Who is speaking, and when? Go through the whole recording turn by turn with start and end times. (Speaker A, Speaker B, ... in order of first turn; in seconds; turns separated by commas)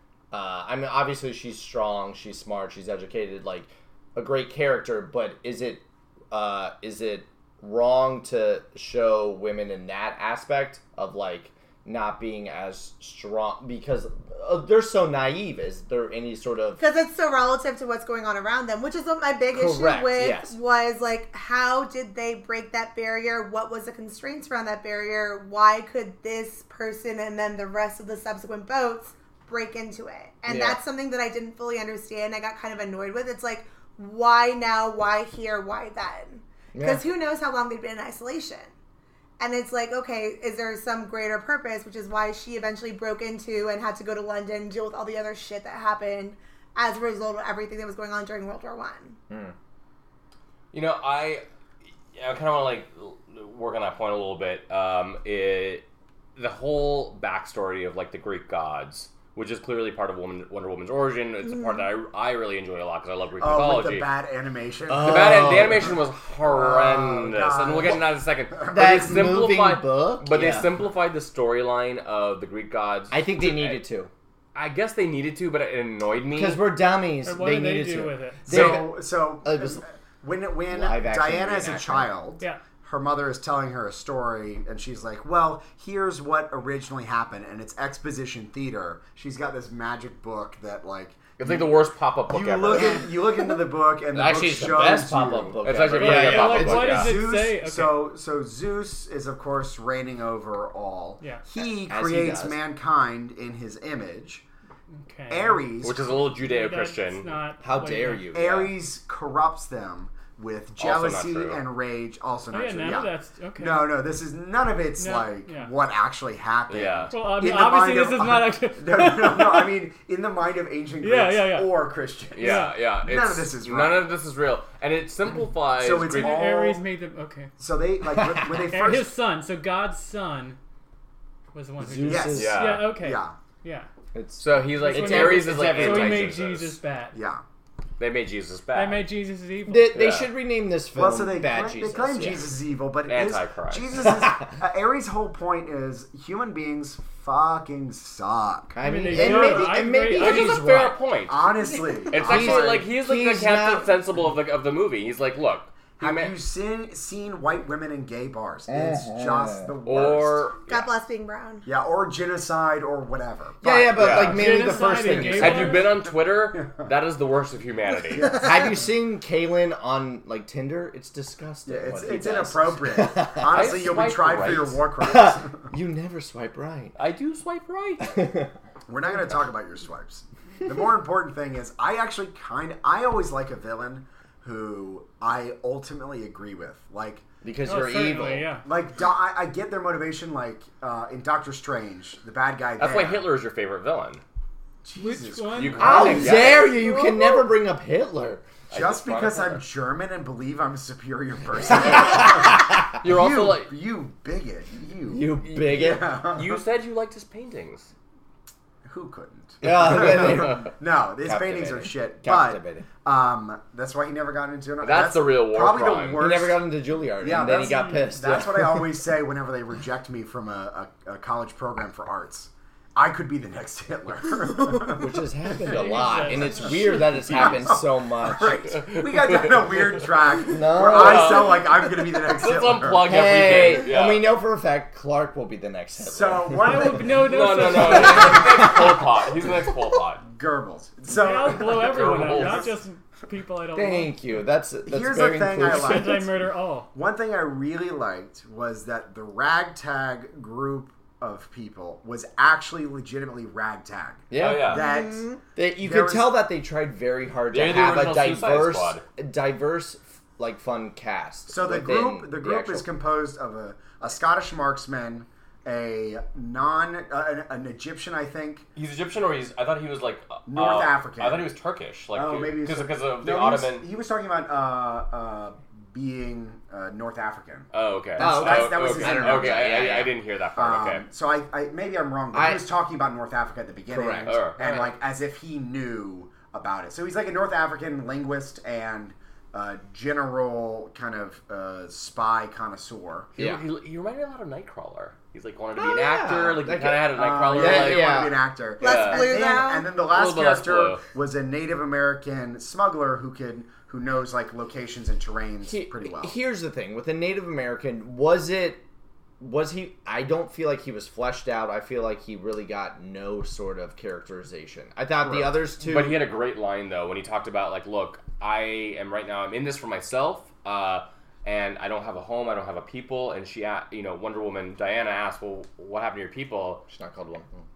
Speaker A: 0.3-16.8, Speaker B: 16.8-38.7, Speaker A: 19.5-20.6, Speaker A: 30.5-30.8, Speaker A: 36.7-37.0, Speaker B: 39.4-49.2, Speaker C: 50.7-51.4, Speaker C: 52.1-64.1, Speaker D: 63.4-69.4, Speaker A: 64.9-66.0, Speaker C: 65.0-73.8, Speaker A: 68.7-70.7, Speaker A: 73.1-74.1, Speaker C: 74.5-76.6, Speaker A: 76.3-79.8, Speaker E: 77.2-78.4, Speaker D: 78.4-91.7, Speaker A: 80.7-82.1, Speaker C: 91.4-93.1, Speaker D: 92.3-95.6, Speaker A: 94.1-97.0, Speaker C: 95.6-97.1, Speaker E: 95.9-98.0, Speaker D: 96.5-104.4, Speaker A: 101.6-102.6, Speaker E: 105.0-108.3, Speaker D: 105.3-106.1, Speaker C: 105.8-107.4, Speaker A: 107.6-108.7, Speaker D: 108.3-124.1, Speaker C: 110.8-111.6, Speaker E: 112.5-114.0, Speaker E: 115.0-115.7, Speaker C: 116.7-117.1, Speaker E: 117.1-119.7, Speaker E: 121.0-121.8, Speaker C: 122.3-126.5, Speaker E: 122.3-122.7, Speaker D: 125.8-126.8, Speaker E: 126.0-127.5, Speaker D: 127.6-129.1, Speaker A: 128.2-128.5, Speaker E: 128.5-130.6, Speaker E: 131.5-133.9, Speaker A: 131.8-132.6, Speaker D: 132.0-133.3, Speaker C: 132.3-132.9, Speaker A: 134.1-136.3, Speaker C: 134.4-136.8, Speaker E: 134.8-137.2, Speaker D: 137.1-137.4, Speaker C: 138.0-139.1, Speaker E: 138.7-140.2, Speaker A: 139.7-142.5, Speaker C: 139.9-140.3, Speaker D: 140.9-149.8, Speaker C: 143.1-144.0, Speaker A: 148.7-150.9, Speaker E: 148.8-150.6, Speaker C: 150.1-156.3, Speaker D: 151.3-152.8, Speaker A: 152.1-153.9, Speaker D: 156.0-160.5, Speaker A: 158.7-159.7, Speaker C: 159.8-160.9, Speaker B: 160.7-161.6, Speaker D: 161.6-164.3, Speaker A: 163.6-165.8, Speaker C: 163.9-164.5, Speaker E: 164.2-165.9, Speaker C: 165.2-168.4, Speaker D: 165.6-166.9, Speaker D: 168.1-168.8, Speaker A: 168.3-173.8, Speaker D: 171.7-175.7, Speaker C: 173.5-174.9, Speaker A: 175.0-176.9, Speaker C: 176.9-178.2, Speaker A: 178.0-178.5, Speaker D: 178.9-187.3, Speaker A: 187.4-188.5, Speaker E: 187.6-188.6, Speaker D: 188.6-193.3, Speaker C: 192.8-194.2, Speaker D: 194.8-196.7, Speaker E: 194.9-196.4, Speaker C: 195.5-196.7, Speaker A: 195.8-198.4, Speaker B: 196.7-197.4, Speaker C: 198.7-199.6, Speaker D: 198.7-206.6, Speaker A: 201.7-202.8, Speaker C: 203.0-203.7, Speaker A: 205.1-206.1, Speaker C: 206.2-207.9, Speaker D: 208.8-216.7, Speaker A: 209.6-210.7, Speaker C: 210.1-210.5, Speaker A: 211.2-212.9, Speaker C: 214.8-216.3, Speaker A: 216.2-218.9, Speaker D: 217.2-225.1, Speaker E: 217.6-217.9, Speaker A: 224.9-228.6, Speaker E: 225.6-227.1, Speaker D: 226.2-233.2, Speaker C: 227.3-227.6, Speaker C: 228.7-230.0, Speaker A: 230.4-231.6, Speaker C: 230.7-234.3, Speaker A: 233.0-236.8, Speaker D: 236.0-237.9, Speaker E: 236.5-238.8, Speaker C: 237.1-240.2, Speaker A: 237.9-238.9, Speaker D: 240.3-242.8, Speaker E: 241.1-244.1, Speaker C: 241.5-242.7, Speaker A: 243.7-246.2, Speaker D: 244.8-246.3, Speaker E: 245.6-246.9, Speaker D: 246.9-256.4, Speaker A: 254.3-254.8, Speaker C: 254.3-254.8, Speaker B: 254.7-255.3, Speaker A: 255.6-262.9, Speaker C: 257.5-259.0, Speaker D: 261.5-268.6, Speaker C: 268.8-273.9, Speaker D: 270.5-271.5, Speaker D: 272.1-279.6, Speaker C: 277.7-281.0, Speaker A: 278.2-280.1, Speaker D: 280.6-293.3, Speaker A: 282.3-282.6, Speaker A: 283.9-284.4, Speaker C: 284.2-284.9, Speaker C: 293.4-298.2, Speaker A: 293.4-293.6, Speaker A: 295.8-298.4, Speaker D: 297.1-306.3, Speaker B: 298.8-299.9, Speaker C: 298.8-299.4, Speaker C: 300.1-301.0, Speaker A: 305.6-308.8, Speaker A: 309.4-316.2, Speaker D: 315.2-315.5, Speaker C: 315.8-326.8, Speaker A: 326.9-327.5